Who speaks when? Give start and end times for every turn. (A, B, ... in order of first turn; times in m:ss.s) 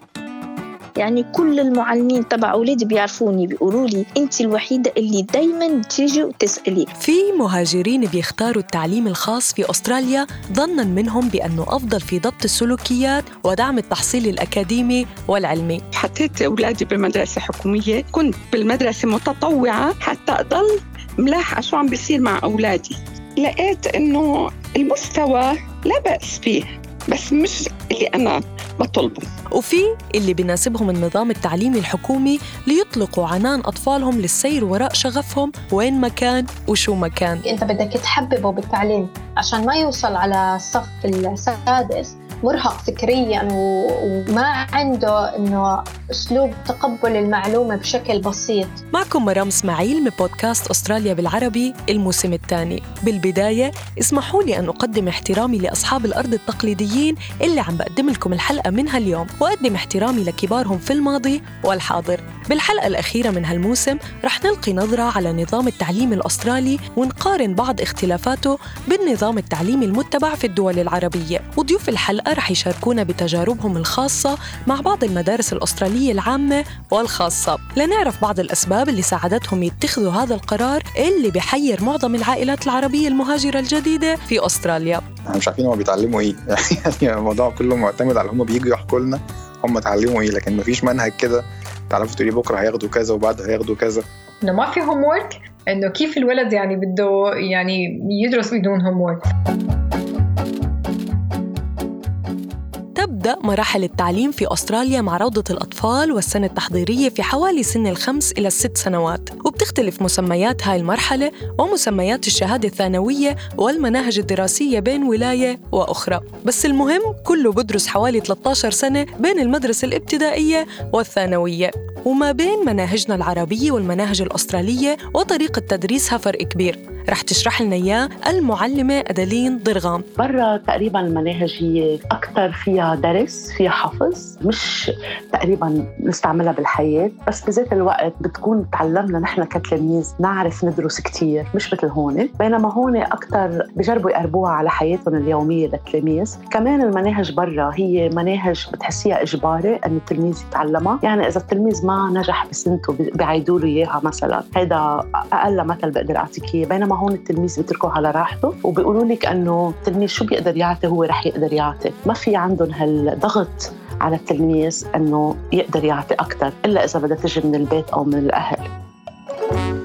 0:01.0-0:06.9 A
0:07.0-0:15.8 B
0:16.0-0:29.2 C
0:29.6-0:37.4 B
0:37.4-0:48.8 D
0:48.9-1:25.0 B
1:25.3-1:34.0 E
1:34.4-1:39.2 F
1:43.0-2:10.0 B
2:10.2-2:34.8 G
2:35.4-2:48.7 G